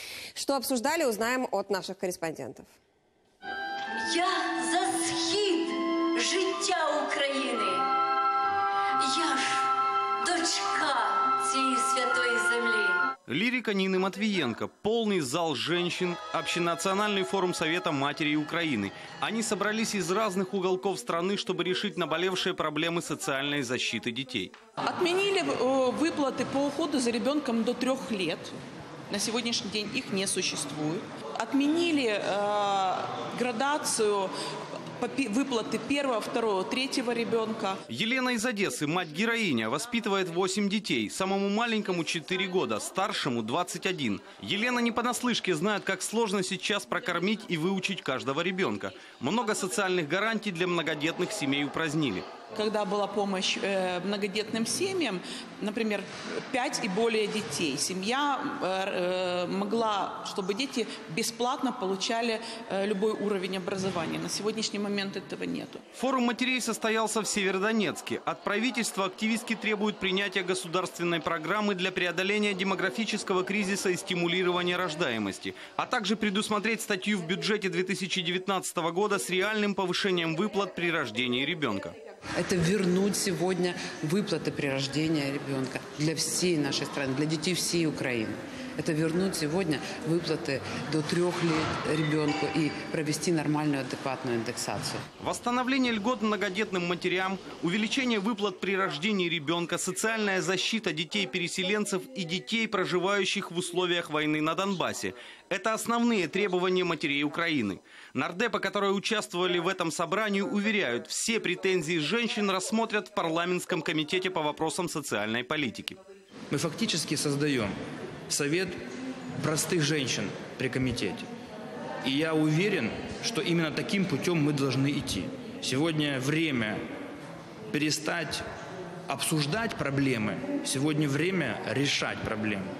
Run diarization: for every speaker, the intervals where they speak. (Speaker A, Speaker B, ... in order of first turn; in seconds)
Speaker A: 0.3-2.7
Speaker B: 4.0-7.8, 9.0-9.7, 10.2-13.0
Speaker C: 13.3-24.5, 37.9-52.3, 66.0-81.9, 95.2-116.0
Speaker D: 24.8-28.5, 29.1-34.3, 35.0-37.8, 52.5-65.8
Speaker E: 82.4-95.0
Speaker F: 116.5-117.7, 118.3-118.7, 119.4-121.3, 122.0-126.8, 127.7-128.4, 129.1-132.7